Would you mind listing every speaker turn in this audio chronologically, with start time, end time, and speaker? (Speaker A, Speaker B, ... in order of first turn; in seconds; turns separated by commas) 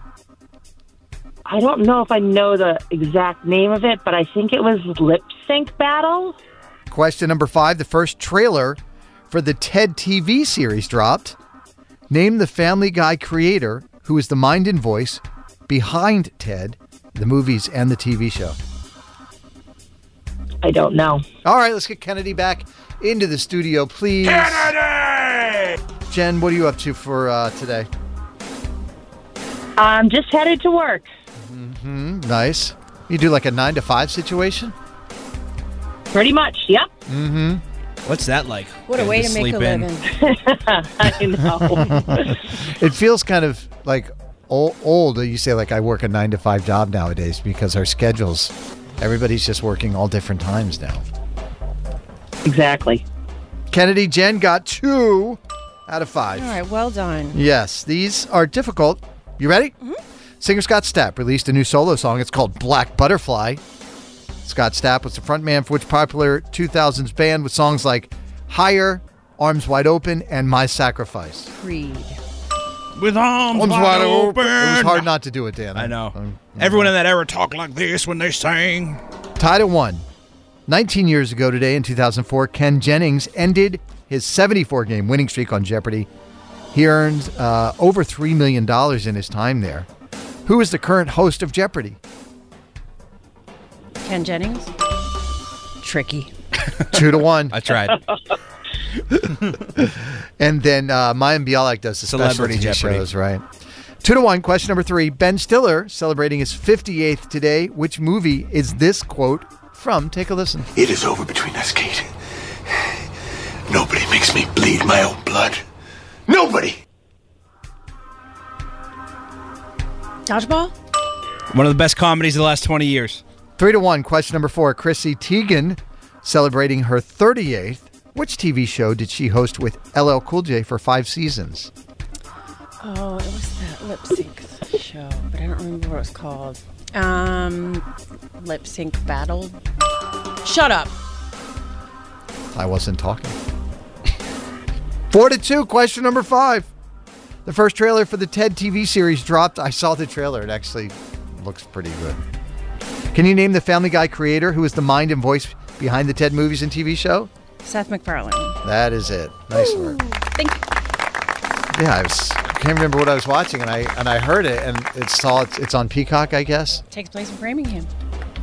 Speaker A: 1.5-6.4, Speaker B: 6.9-8.8, Speaker B: 9.3-11.4, Speaker B: 12.1-18.6, Speaker A: 20.6-21.2, Speaker B: 21.4-24.8, Speaker B: 26.1-27.9, Speaker A: 29.8-31.1, Speaker B: 31.5-34.7, Speaker A: 36.1-36.9, Speaker B: 37.1-37.6, Speaker C: 38.0-39.9, Speaker D: 38.8-40.2, Speaker A: 40.0-42.3, Speaker B: 41.6-51.0, Speaker A: 52.5-53.0, Speaker B: 53.7-56.6, Speaker D: 56.4-57.4, Speaker B: 57.3-59.8, Speaker B: 60.4-63.6, Speaker B: 64.5-71.5, Speaker D: 71.5-72.2, Speaker C: 73.0-75.1, Speaker B: 73.5-76.9, Speaker C: 75.8-79.0, Speaker B: 79.4-80.0, Speaker B: 80.7-86.1, Speaker B: 86.7-89.9, Speaker B: 90.5-92.0, Speaker D: 94.0-94.7, Speaker D: 95.8-96.3, Speaker B: 96.9-97.6, Speaker C: 97.5-98.0, Speaker B: 100.4-103.4, Speaker C: 102.1-103.1, Speaker B: 104.0-110.7, Speaker E: 110.8-112.1, Speaker E: 113.7-115.6, Speaker E: 116.3-116.8, Speaker D: 120.3-120.7, Speaker C: 121.5-123.2, Speaker B: 123.6-131.7, Speaker D: 132.8-137.8, Speaker D: 138.4-139.6, Speaker D: 140.4-140.9, Speaker B: 142.6-143.4, Speaker B: 145.1-146.7, Speaker B: 147.5-152.2, Speaker B: 153.1-157.3, Speaker D: 157.6-158.6, Speaker B: 158.6-160.0, Speaker D: 159.5-160.6, Speaker B: 161.7-166.8, Speaker D: 166.9-167.9